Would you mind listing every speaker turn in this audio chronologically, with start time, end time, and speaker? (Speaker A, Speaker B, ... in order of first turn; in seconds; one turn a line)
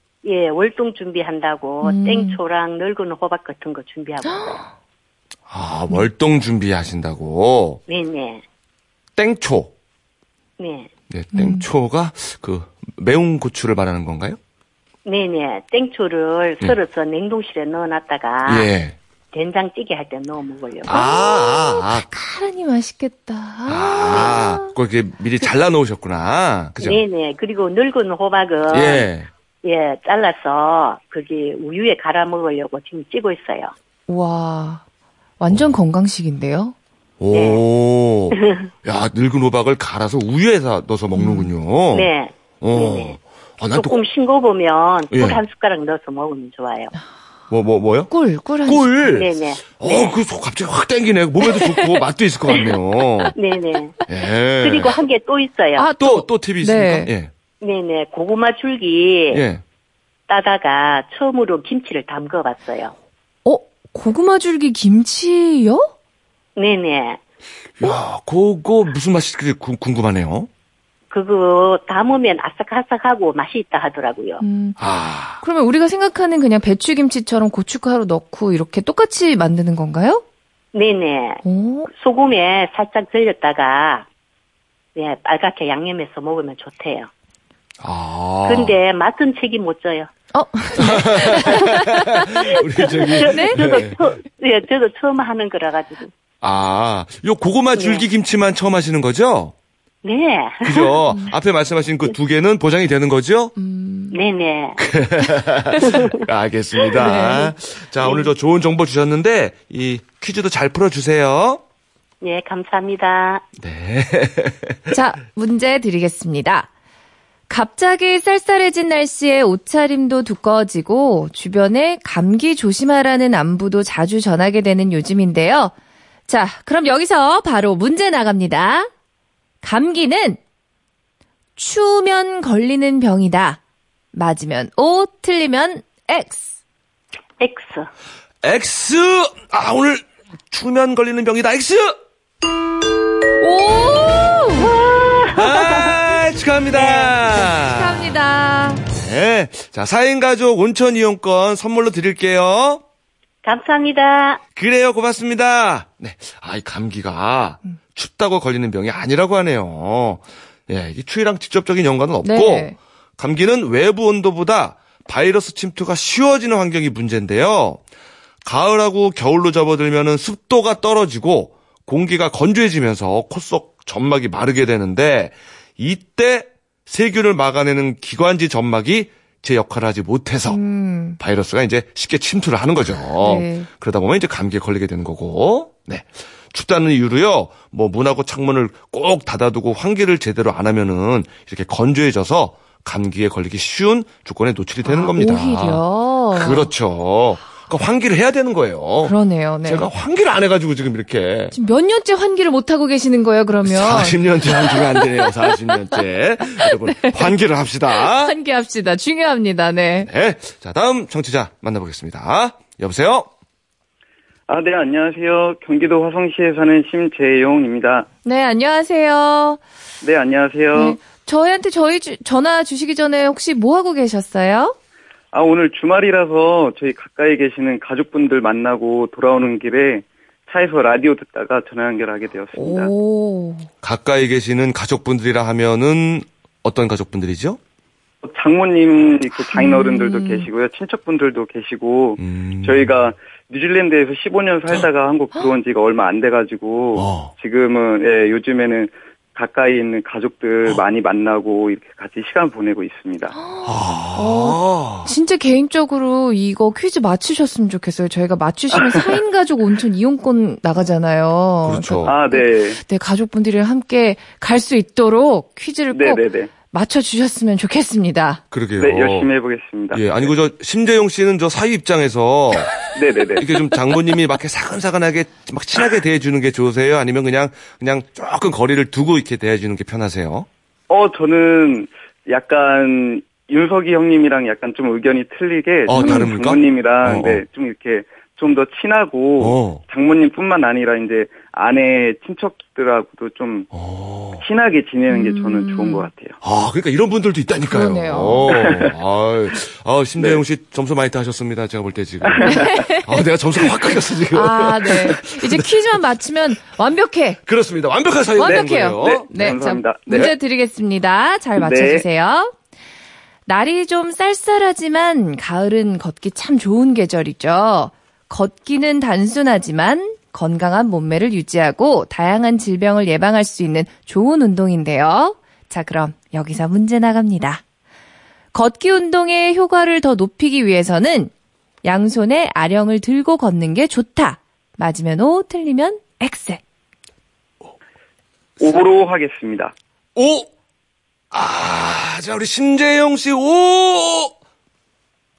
Speaker A: 0.2-4.6
Speaker B: 1.8-2.4
Speaker C: 5.5-7.8
Speaker A: 7.9-8.4
Speaker C: 9.2-9.7
Speaker A: 10.6-10.9
Speaker C: 11.1-14.4
Speaker B: 11.3-11.7
Speaker A: 15.0-18.7
Speaker C: 18.4-19.0
Speaker A: 19.3-20.9
Speaker C: 20.8-22.1
Speaker B: 20.9-24.7
Speaker C: 23.7-27.0
Speaker A: 26.8-29.1
Speaker C: 28.7-29.3
Speaker A: 29.6-33.7
Speaker B: 34.1-34.8
Speaker B: 35.4-36.7
Speaker C: 37.2-44.0
Speaker A: 37.3-37.6
Speaker A: 38.3-38.7
Speaker B: 41.1-41.5
Speaker A: 41.9-43.2
Speaker A: 43.7-46.9
Speaker C: 45.1-45.4
Speaker C: 47.5-48.1
Speaker B: 48.1-48.9
Speaker C: 48.6-53.3
Speaker A: 49.1-50.1
Speaker B: 51.4-52.0
Speaker A: 53.3-54.0
Speaker C: 54.1-54.9
Speaker A: 54.6-55.9
Speaker B: 55.8-57.1
Speaker C: 56.0-57.3
Speaker A: 57.6-59.4
Speaker C: 59.3-59.6
Speaker A: 60.3-62.9
Speaker B: 63.4-65.9
Speaker A: 66.5-67.2
Speaker C: 67.8-70.5
Speaker A: 71.1-74.4
Speaker B: 74.4-74.8
Speaker C: 74.8-75.4
Speaker B: 75.4-80.2
Speaker A: 80.7-84.0
Speaker B: 81.4-81.9
Speaker A: 85.0-87.1
Speaker C: 87.8-88.8
Speaker A: 88.5-90.1
Speaker B: 90.3-92.0
Speaker C: 90.8-94.1
Speaker A: 91.3-91.6
Speaker A: 92.6-96.1
Speaker B: 93.2-93.6
Speaker C: 96.4-99.5
Speaker A: 97.7-98.0
Speaker A: 100.0-100.9
Speaker C: 100.6-103.5
Speaker B: 103.6-104.2
Speaker A: 104.1-104.8
Speaker C: 104.8-111.6
Speaker A: 105.8-106.1
Speaker B: 107.0-107.5
Speaker A: 112.2-113.4
Speaker C: 113.6-114.9
Speaker B: 114.9-116.7
Speaker B: 117.5-125.7
Speaker B: 126.3-128.9
Speaker B: 129.6-130.4
Speaker B: 131.6-133.6
Speaker B: 134.1-136.5
Speaker A: 137.4-137.9
Speaker C: 138.4-142.0
Speaker B: 143.4-144.7
Speaker A: 144.6-145.9
Speaker C: 145.3-148.1
Speaker B: 147.6-148.8
Speaker C: 148.9-152.8
Speaker A: 153.4-154.4
Speaker C: 154.6-167.8
Speaker B: 162.2-162.7
Speaker C: 168.4-180.6
Speaker B: 180.5-181.2
Speaker C: 181.2-201.5
Speaker B: 183.2-183.7
Speaker B: 194.8-196.7
Speaker B: 199.0-199.9
Speaker B: 201.5-205.9
Speaker C: 203.6-208.3
Speaker B: 206.6-207.3
Speaker B: 207.9-210.1
Speaker C: 210.0-213.3
Speaker D: 214.5-218.1
Speaker B: 218.2-219.6
Speaker D: 220.0-221.0
Speaker B: 220.7-224.7
Speaker D: 225.3-232.9
Speaker B: 232.5-233.7
Speaker C: 233.8-237.6
Speaker D: 238.2-253.3
Speaker B: 239.5-240.5
Speaker C: 242.2-243.0
Speaker C: 246.9-247.3
Speaker B: 253.3-268.4
Speaker C: 253.6-255.1
Speaker C: 261.6-262.1
Speaker D: 262.0-262.8
Speaker D: 265.9-266.5
Speaker C: 268.5-269.3
Speaker D: 268.8-270.3
Speaker C: 269.9-272.8
Speaker D: 272.9-273.5
Speaker C: 273.4-280.5
Speaker D: 280.9-293.7
Speaker C: 285.9-287.4
Speaker B: 285.9-286.3
Speaker C: 289.4-289.8
Speaker C: 293.7-294.4
Speaker D: 294.4-296.4
Speaker B: 295.1-296.1
Speaker C: 296.4-306.0
Speaker B: 297.7-298.6
Speaker D: 298.5-298.9
Speaker D: 302.2-302.7
Speaker B: 302.4-303.2
Speaker B: 304.3-307.4
Speaker C: 307.4-310.3
Speaker B: 308.4-312.5
Speaker D: 308.4-310.3
Speaker D: 311.6-312.0
Speaker B: 313.5-327.6
Speaker B: 328.5-331.3
Speaker B: 331.8-336.6
Speaker D: 338.6-339.7
Speaker C: 340.1-340.5
Speaker C: 341.3-344.3